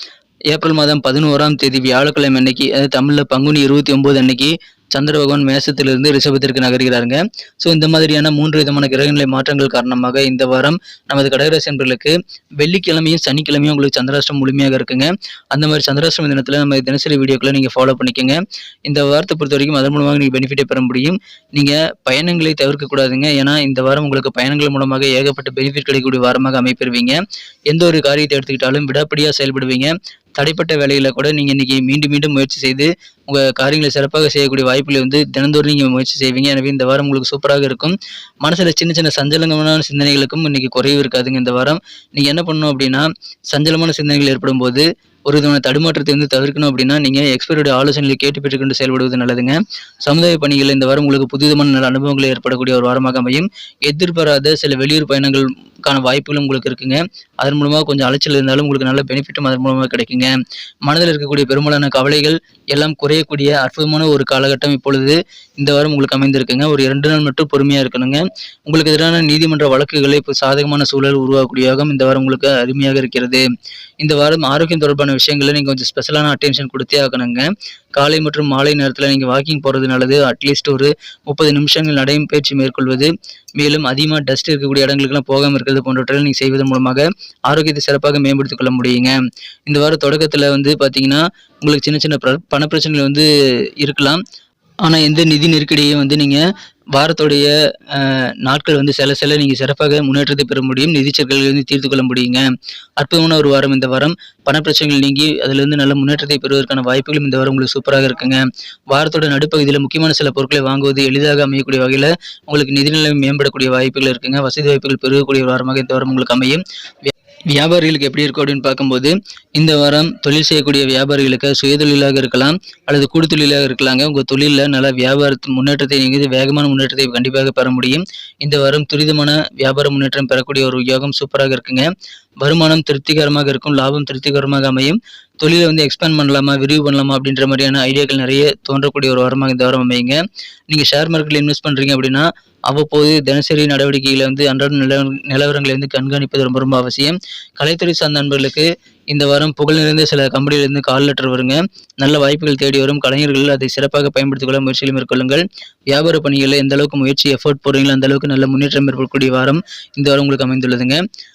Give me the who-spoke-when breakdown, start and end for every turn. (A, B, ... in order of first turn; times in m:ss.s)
0:00.5-1:00.3 A
1:00.8-1:13.4 A
1:14.0-1:29.2 A
1:29.7-1:33.3 A
1:33.8-1:34.2 A
1:34.8-1:36.4 A
1:36.9-1:42.4 A
1:43.0-2:11.8 A
2:12.4-2:20.2 A
2:20.7-2:41.0 A